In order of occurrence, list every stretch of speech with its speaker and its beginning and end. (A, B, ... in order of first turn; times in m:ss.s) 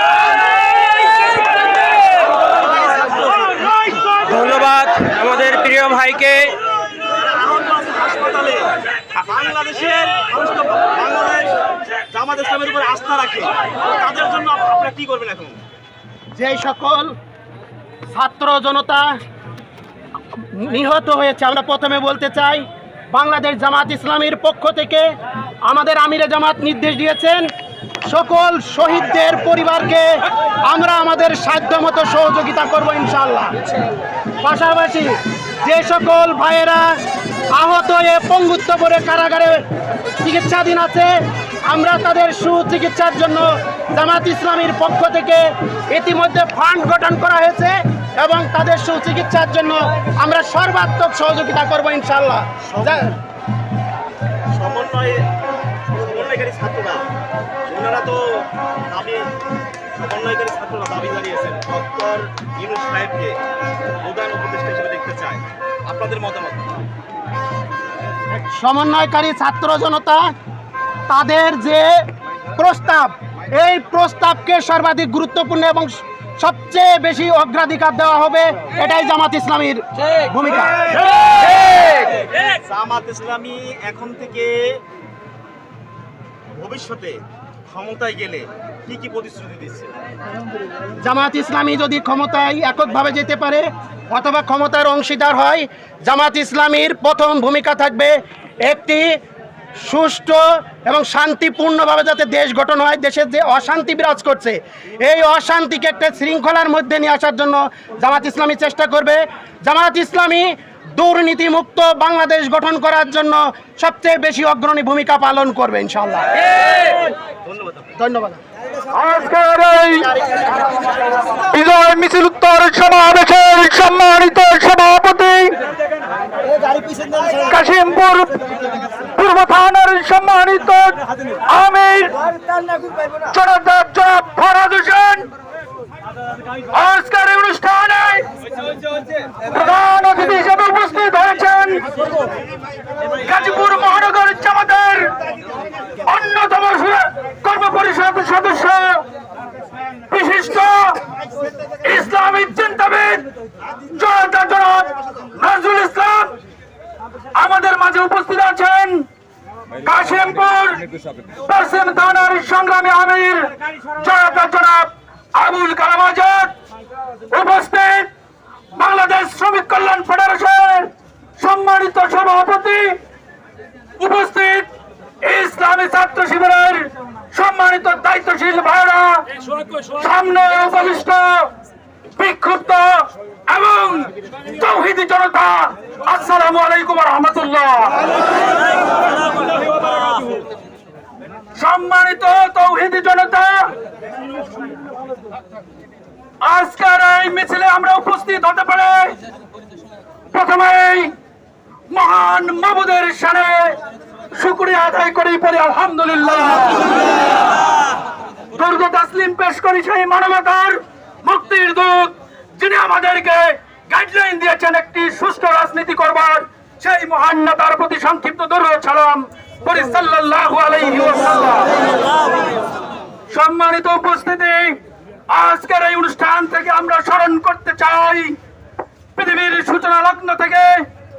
0:02.8-0:03.8 A
0:04.2-0:06.6 B
0:07.1-0:15.6 A
0:16.4-0:17.1 C
0:18.1-0:19.1 C
0:20.5-0:25.1 C
0:25.6-0:27.5 C
0:28.0-0:33.6 C
0:34.4-0:37.0 C
0:37.5-0:39.6 C
0:40.2-0:53.1 C
0:52.7-0:53.1 A
0:54.5-0:55.3 A
0:55.9-0:57.1 A
0:57.6-0:59.3 A
1:00.0-1:03.4 A
1:04.0-1:06.7 A
1:08.3-1:10.3 C
1:11.1-1:21.3 C
1:22.5-1:24.8 A
1:26.6-1:29.9 A
1:31.0-1:39.2 C
1:39.8-1:56.4 C
1:57.4-1:57.9 A
1:58.0-1:58.4 C
1:58.9-2:00.2 D
2:01.5-2:05.6 D
2:07.4-2:08.4 D
2:09.1-2:12.2 D
2:13.2-2:15.3 D
2:16.7-2:18.2 D
2:19.5-2:21.9 D
2:23.2-2:25.2 D
2:26.0-2:29.1 D
2:30.1-2:31.0 D
2:31.8-2:33.2 D
2:33.9-2:36.4 D
2:37.3-2:39.1 D
2:39.8-2:40.9 D
2:41.4-2:46.5 D
2:47.3-2:48.1 D
2:48.7-2:53.0 D
2:54.0-2:54.7 D
2:55.2-3:01.5 D
3:02.2-3:08.1 D
3:11.6-3:13.8 D
3:16.4-3:19.2 D
3:20.3-3:21.1 D
3:21.9-3:23.8 D
3:24.3-3:27.0 D
3:28.6-3:41.8 D
3:43.3-3:44.8 D
3:45.3-3:48.4 D
3:49.2-3:50.9 D